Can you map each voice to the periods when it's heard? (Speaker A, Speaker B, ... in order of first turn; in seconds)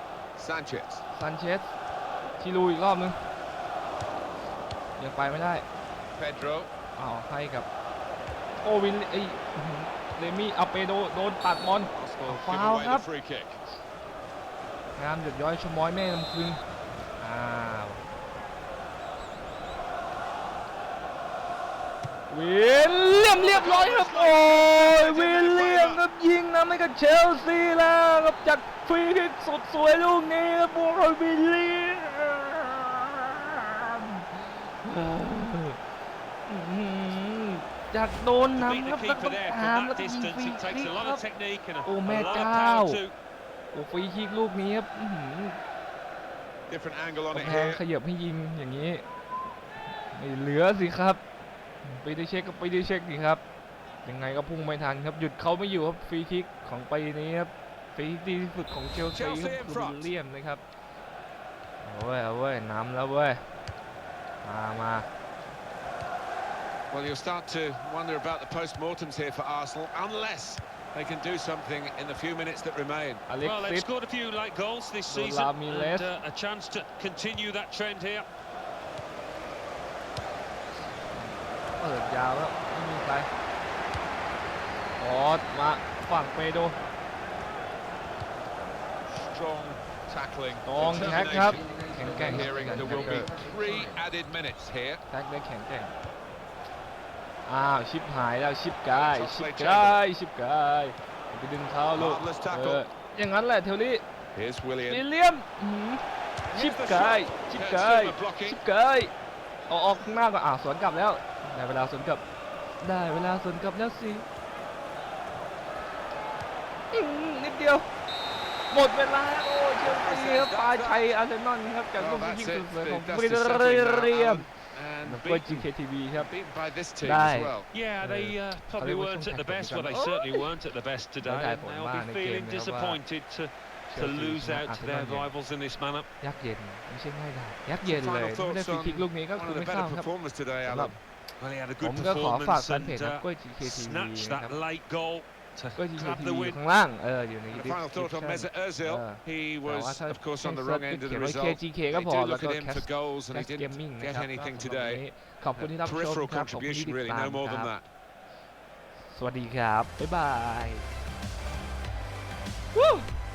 Speaker A: 0.4-1.0, 6.2-6.7, 11.9-13.6, 23.2-26.0, 46.7-47.8, 59.1-60.1, 66.9-73.2, 89.0-95.0, 98.9-100.0, 102.0-102.8, 104.3-105.1, 106.5-108.6, 119.8-121.1, 122.0-127.7, 137.8-141.0, 147.5-155.0, 155.6-157.9
Speaker B: 1.1-1.7, 2.4-3.2, 5.0-5.7, 7.0-7.7, 8.6-13.1, 15.0-16.6, 17.2-18.0, 22.3-35.8, 36.5-41.2, 41.9-43.0, 43.7-45.6, 47.3-49.0, 50.1-51.2, 51.8-53.4, 54.0-60.6, 61.8-63.4, 64.4-65.1, 73.3-73.9, 75.1-76.1, 81.1-83.3, 85.0-86.8, 90.7-93.3, 95.1-95.9, 97.5-104.0, 104.9-106.0, 106.5-109.1, 109.7-112.2, 112.8-114.3, 116.9-117.9, 118.7-124.5, 125.0-126.3, 127.0-130.5, 131.2-133.0, 133.9-135.3, 136.2-140.1, 140.6-141.0, 141.8-144.6, 145.8-157.7, 158.9-160.9, 162.7-163.1
Speaker C: 38.5-43.1, 73.4-78.3, 127.7-136.1, 141.4-146.6